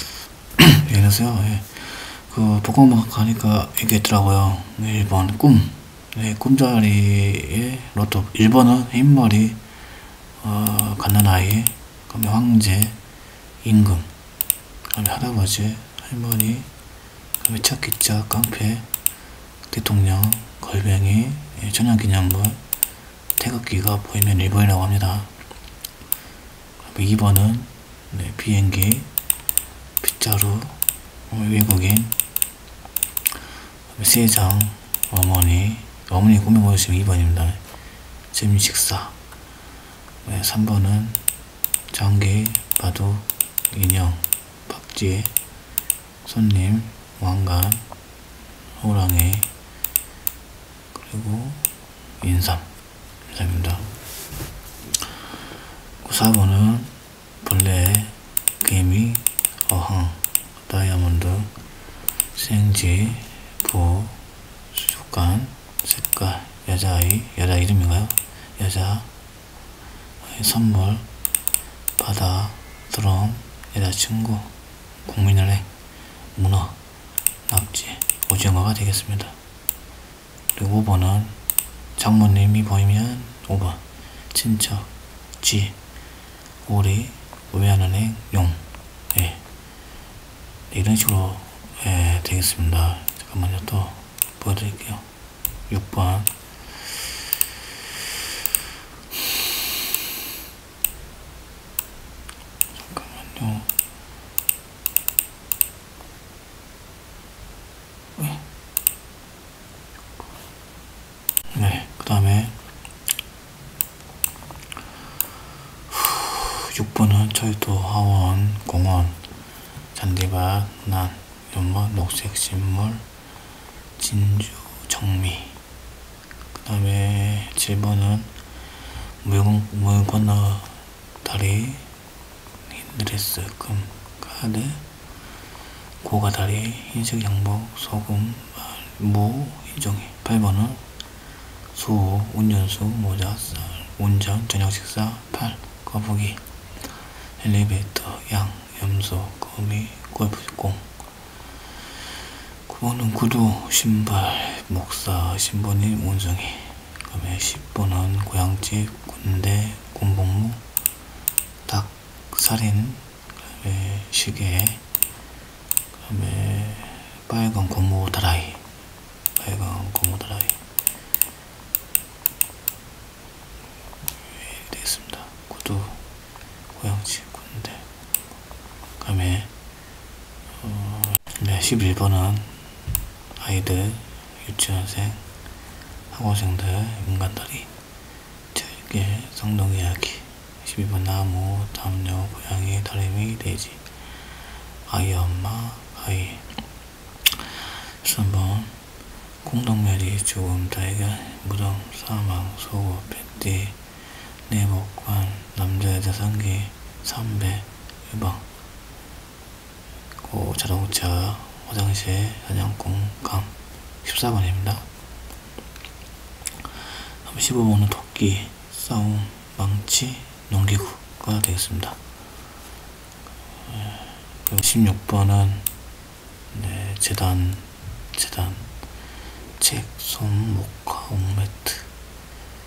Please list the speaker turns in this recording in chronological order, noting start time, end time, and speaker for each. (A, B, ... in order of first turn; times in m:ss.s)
0:00.6-0:09.6 A
0:10.4-0:13.0 A
0:13.6-0:14.1 A
0:14.9-0:16.7 A
0:17.4-0:18.9 A
0:19.7-0:22.6 A
0:23.4-0:25.3 A
0:26.8-0:29.1 A
0:30.0-0:30.8 A
0:31.3-0:32.2 A
0:33.9-0:37.6 A
0:38.3-0:39.2 A
0:40.2-0:41.2 A
0:41.9-0:45.3 A
0:46.2-0:47.8 A
0:48.8-0:49.5 A
0:50.9-0:51.6 A
0:52.2-0:52.7 A
0:53.3-0:53.9 A
0:56.0-1:01.5 A
1:02.3-1:04.2 A
1:04.7-1:09.1 A
1:10.2-1:11.0 A
1:12.0-1:14.5 A
1:15.0-1:15.7 A
1:16.3-1:16.8 A
1:17.5-1:19.4 A
1:20.5-1:21.4 A
1:22.0-1:24.9 A
1:25.4-1:25.8 A
1:26.6-1:29.4 A
1:30.7-1:35.0 A
1:35.7-1:36.3 A
1:42.8-1:43.7 A
1:48.2-1:48.4 A
1:51.5-1:52.6 A
1:55.9-1:59.2 A
1:59.9-2:03.0 A
2:04.0-2:05.6 A
2:06.5-2:08.3 A
2:09.2-2:11.9 A
2:12.7-2:14.8 A
2:16.0-2:20.8 A
2:21.7-2:26.4 A
2:27.4-2:30.9 A
2:32.7-2:40.6 A
2:41.6-2:44.8 A
2:46.0-2:48.6 A
2:49.4-2:50.6 A
2:54.4-2:56.0 A
2:56.7-2:57.9 A
2:59.0-2:59.5 A
3:00.6-3:02.6 A
3:03.3-3:05.2 A
3:06.1-3:07.7 A
3:08.5-3:13.8 A
3:14.8-3:16.4 A
3:17.4-3:18.7 A
3:19.4-3:23.8 A
3:24.5-3:28.4 A
3:30.2-3:34.8 A
3:37.2-3:42.0 A
3:43.7-3:45.7 A
3:46.5-3:48.7 A
3:49.6-3:51.9 A